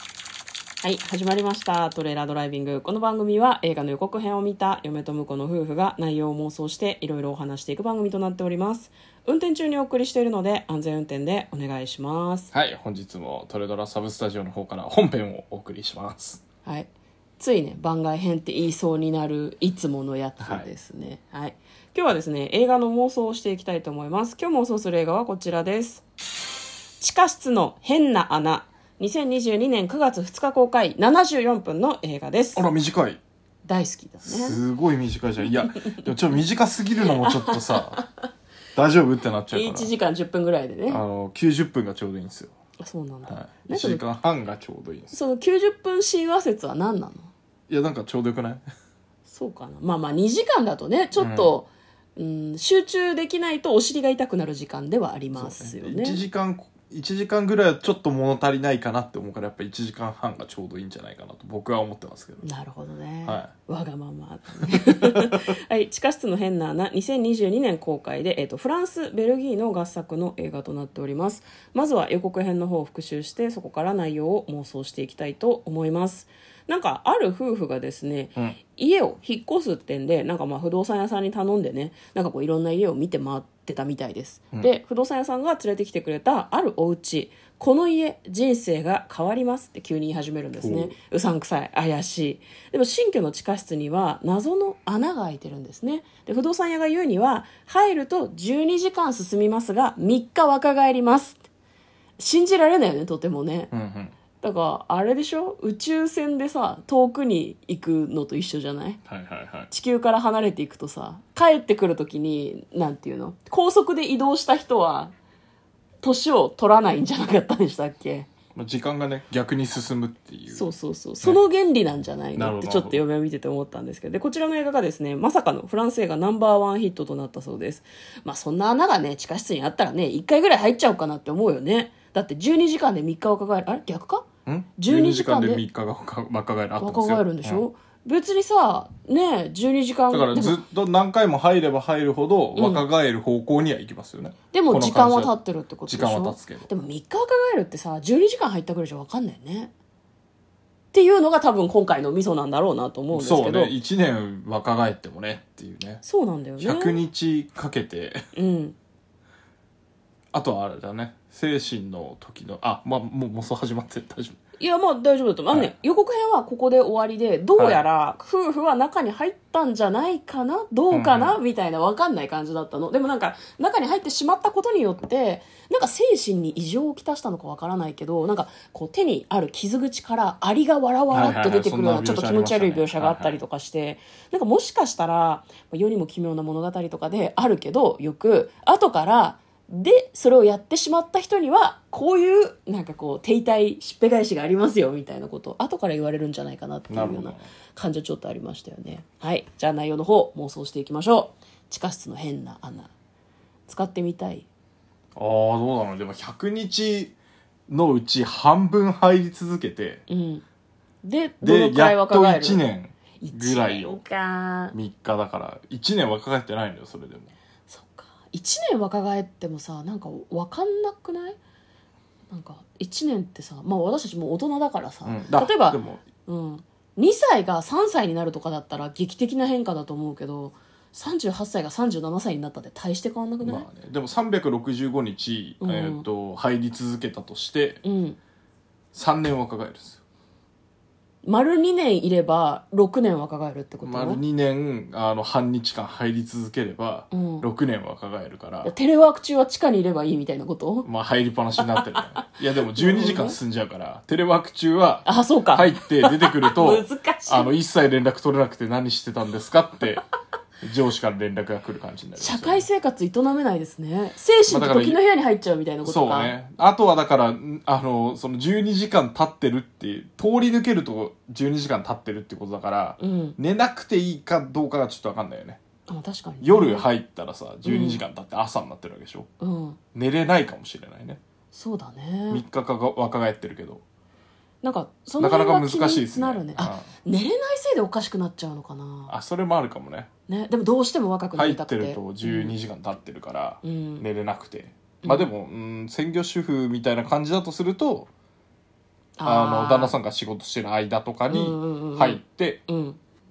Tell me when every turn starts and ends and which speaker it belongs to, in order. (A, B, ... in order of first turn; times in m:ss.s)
0:00.8-0:12.5 A
0:12.5-0:16.4 B
0:16.6-0:26.0 A
0:20.4-0:20.7 B
0:27.0-0:32.7 A
0:32.5-0:33.2 B
0:33.6-0:34.6 A
0:34.2-0:38.0 B
0:35.6-0:35.9 A
0:37.1-0:38.0 A
0:38.8-0:39.9 B
0:39.5-0:41.0 A
0:40.9-0:42.5 B
0:42.8-0:44.0 A
0:43.3-0:45.2 B
0:45.1-0:47.3 A
0:47.7-0:48.6 B
0:49.3-0:56.2 A
0:51.2-0:51.5 B
0:55.3-1:02.4 B
1:02.4-1:41.4 A
1:03.2-1:03.5 B
1:30.6-1:30.9 B
1:42.2-1:43.7 A
1:43.7-1:44.2 B
1:44.4-1:49.0 A
1:49.1-1:49.7 B
1:49.7-1:55.1 A
1:56.0-1:58.3 A
1:58.5-2:00.7 B
2:00.5-2:14.2 A
2:02.4-2:03.0 B
2:14.4-2:17.6 B
2:14.8-2:15.6 A
2:16.8-2:20.6 A
2:20.1-2:25.3 B
2:22.6-2:22.8 A
2:24.5-2:29.7 A
2:25.8-2:26.7 B
2:30.9-2:33.7 A
2:33.1-2:36.0 B
2:36.0-2:37.0 A
2:36.6-2:38.2 B
2:38.3-2:38.7 A
2:40.3-2:44.4 B
2:44.6-3:22.9 A
2:47.6-2:47.8 B
2:50.9-2:51.4 B
3:01.1-3:03.4 B
3:16.9-3:17.5 B
3:23.7-3:24.5 A
3:25.1-3:27.1 B
3:27.7-3:30.0 B
3:30.1-3:30.4 A
3:31.0-3:32.6 A
3:31.4-3:34.0 B
3:33.2-3:34.8 A
3:34.7-3:37.3 B
3:37.7-3:41.4 A
3:42.3-3:53.7 A
3:45.0-3:46.0 B
3:53.4-3:57.8 B
3:55.6-3:56.0 A
3:57.8-3:58.2 A
3:58.9-4:00.0 B
4:01.2-4:04.2 A
4:03.8-4:08.7 B
4:07.1-4:07.5 A
4:08.6-4:10.9 A
4:10.8-4:20.0 B
4:12.7-4:13.4 A
4:15.0-4:17.5 A
4:20.6-4:22.6 B
4:22.2-4:26.3 A
4:24.5-4:25.0 B
4:25.8-4:35.6 B
4:33.0-4:33.4 A
4:35.9-4:36.9 A
4:36.4-4:39.3 B
4:37.6-4:38.0 A
4:39.4-4:39.8 A
4:39.9-4:41.2 B
4:41.5-4:42.4 A
4:42.3-4:43.8 B
4:44.6-4:49.1 A
4:45.2-4:46.9 B
4:49.1-4:50.1 B
4:50.3-4:52.5 A
4:51.3-4:58.1 B
4:53.6-4:54.0 A
4:55.0-4:55.3 A
4:59.2-4:59.9 A
4:59.2-5:02.6 B
5:01.3-5:03.0 A